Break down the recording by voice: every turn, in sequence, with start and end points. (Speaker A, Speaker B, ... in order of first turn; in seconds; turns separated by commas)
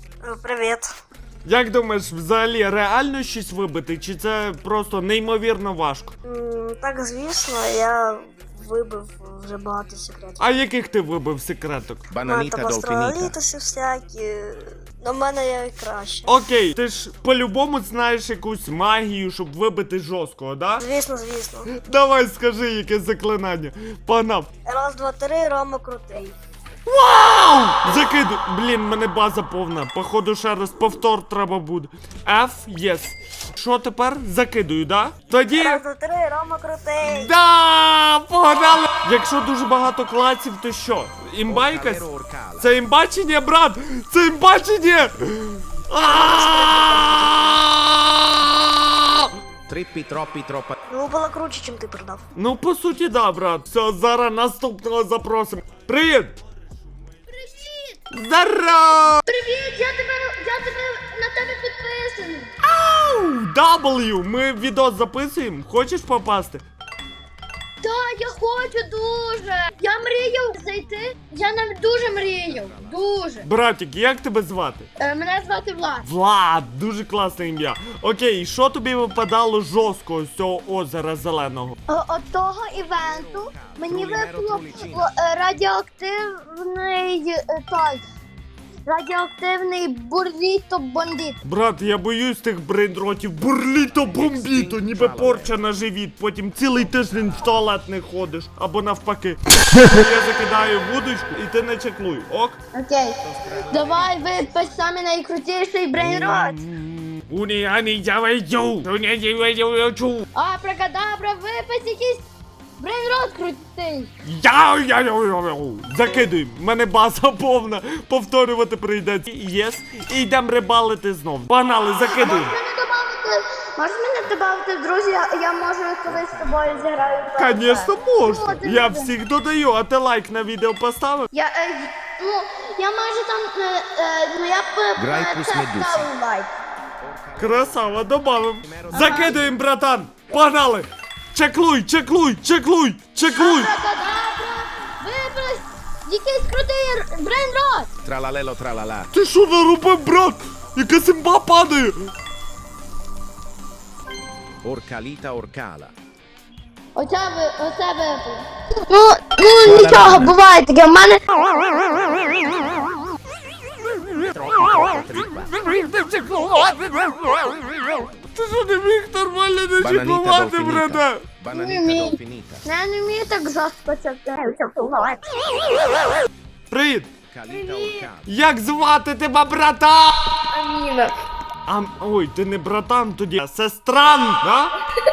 Speaker A: 0.2-0.9, Speaker B: 1.4-6.2, Speaker A: 6.3-10.4, Speaker B: 10.4-12.1, Speaker C: 12.1-13.4, Speaker A: 12.2-16.4, Speaker B: 16.3-20.9, Speaker A: 20.8-21.7, Speaker B: 21.8-24.5, Speaker A: 24.6-26.4, Speaker B: 26.9-35.8, Speaker A: 35.5-37.3, Speaker B: 37.0-42.1, Speaker C: 41.5-42.7, Speaker B: 42.6-49.3, Speaker A: 46.1-47.6, Speaker C: 49.7-50.8, Speaker A: 50.9-52.2, Speaker B: 52.4-56.4, Speaker D: 57.3-58.0, Speaker B: 58.1-59.2, Speaker D: 59.3-62.5, Speaker B: 62.6-66.7, Speaker D: 67.8-73.5, Speaker C: 72.0-73.0, Speaker B: 73.4-74.9, Speaker D: 75.0-76.1, Speaker B: 76.0-81.8, Speaker D: 81.9-88.0, Speaker C: 82.9-85.1, Speaker D: 88.9-91.4, Speaker B: 91.4-102.6, Speaker C: 94.0-95.6, Speaker C: 96.8-97.5, Speaker D: 102.7-106.6, Speaker C: 103.2-104.8, Speaker B: 106.1-110.2, Speaker D: 110.3-112.3, Speaker D: 112.8-114.1, Speaker B: 114.2-122.5, Speaker D: 121.9-129.1, Speaker C: 126.0-127.5, Speaker B: 127.4-131.3, Speaker C: 128.2-128.5, Speaker D: 131.3-136.6, Speaker C: 135.0-136.1, Speaker C: 137.0-138.0, Speaker B: 137.4-143.7, Speaker C: 138.6-139.5, Speaker D: 138.9-139.4, Speaker D: 143.3-147.9, Speaker C: 148.0-149.1, Speaker B: 149.1-152.1, Speaker C: 154.6-155.9, Speaker D: 157.0-162.6, Speaker C: 159.6-160.3, Speaker B: 163.8-171.2, Speaker C: 164.2-165.7, Speaker C: 169.8-172.6, Speaker D: 171.5-175.8, Speaker B: 176.7-177.1, Speaker C: 177.3-178.3, Speaker D: 177.5-178.1, Speaker B: 178.2-180.4, Speaker D: 180.5-181.2, Speaker B: 181.7-184.8